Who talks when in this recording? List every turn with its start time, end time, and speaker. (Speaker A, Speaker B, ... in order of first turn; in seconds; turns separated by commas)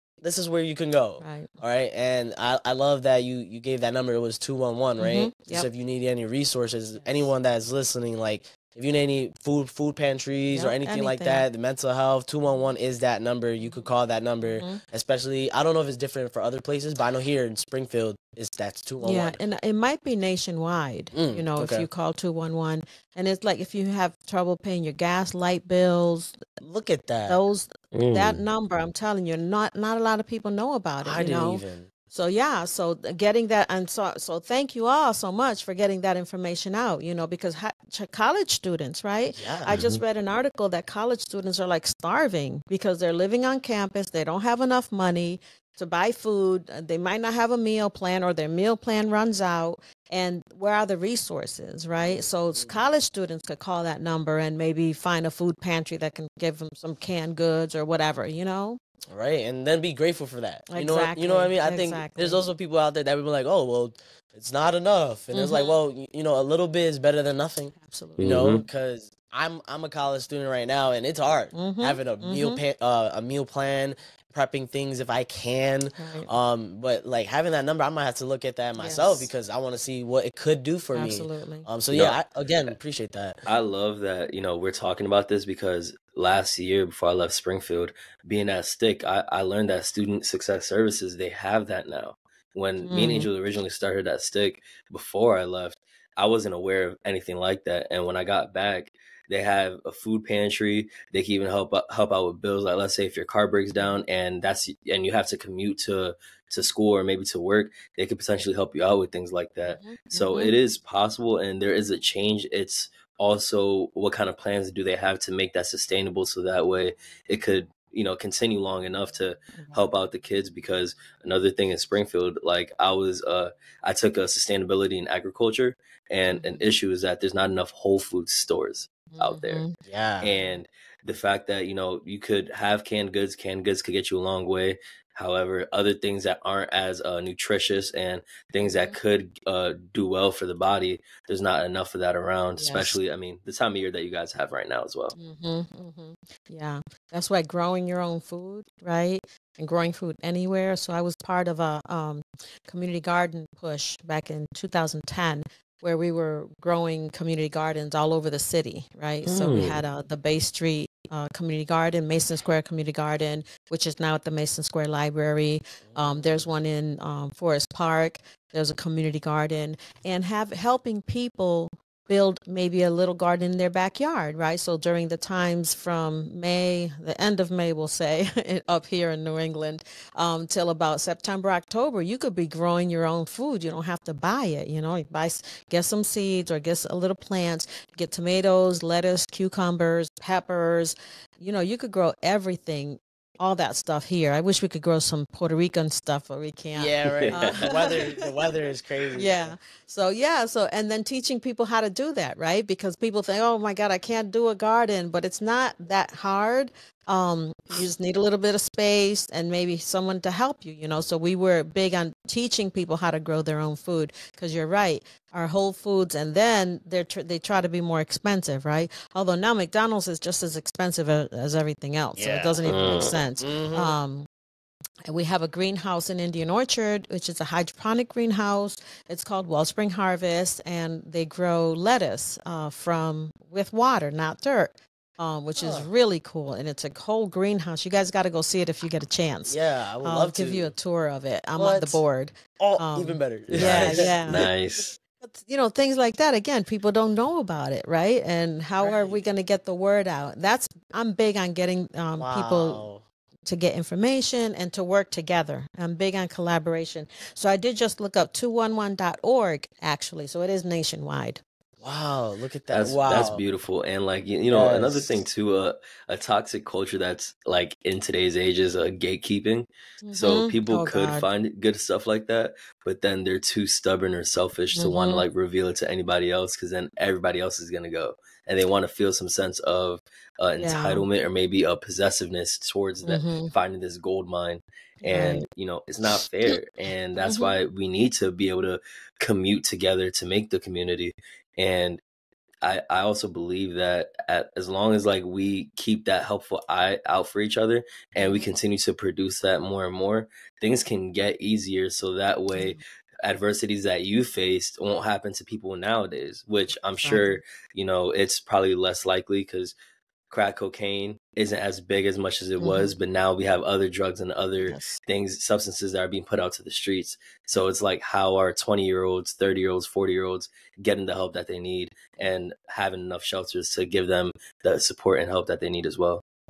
Speaker A: 0.2-19.4, Speaker B: 1.2-1.6, Speaker B: 5.0-5.7, Speaker B: 10.5-11.4, Speaker B: 14.5-14.8, Speaker B: 19.0-26.4, Speaker A: 21.1-21.9, Speaker A: 26.6-27.4, Speaker B: 27.2-58.8, Speaker C: 27.9-28.4, Speaker A: 31.0-31.9, Speaker A: 39.3-39.8, Speaker C: 39.7-40.0, Speaker A: 52.0-52.8, Speaker A: 59.1-83.4, Speaker B: 60.7-62.4, Speaker B: 65.3-65.7, Speaker B: 67.7-68.3, Speaker C: 68.2-68.6, Speaker B: 71.5-72.6, Speaker B: 76.0-76.3, Speaker B: 78.8-79.3, Speaker B: 80.9-81.7, Speaker C: 81.9-82.7, Speaker C: 83.5-129.6, Speaker B: 92.8-93.3, Speaker B: 103.7-104.0, Speaker B: 109.6-110.5, Speaker B: 126.3-126.6, Speaker B: 129.1-129.8, Speaker A: 129.8-130.4, Speaker C: 130.2-145.2, Speaker B: 138.6-139.0, Speaker B: 142.6-143.0, Speaker B: 145.2-198.1, Speaker C: 159.2-159.8, Speaker A: 165.8-166.5, Speaker A: 196.8-199.5, Speaker C: 197.1-197.8, Speaker B: 199.2-224.3, Speaker A: 222.2-222.6, Speaker C: 222.7-223.2, Speaker A: 223.4-223.9, Speaker B: 225.1-244.5, Speaker A: 235.6-235.9, Speaker A: 239.5-240.7, Speaker A: 241.6-242.0, Speaker A: 242.6-244.4, Speaker C: 243.5-244.9, Speaker B: 245.2-252.8, Speaker A: 248.8-249.2, Speaker A: 252.2-253.0, Speaker B: 253.5-261.4, Speaker A: 261.8-263.4, Speaker C: 262.7-292.0, Speaker A: 264.5-265.2, Speaker B: 270.1-271.3, Speaker B: 274.8-275.2, Speaker B: 280.6-281.1, Speaker B: 283.1-283.5, Speaker B: 285.0-285.4, Speaker B: 287.2-287.5, Speaker C: 292.6-309.7, Speaker B: 298.2-298.5, Speaker B: 307.0-307.4, Speaker C: 310.3-326.2, Speaker B: 312.6-313.0, Speaker B: 314.6-315.0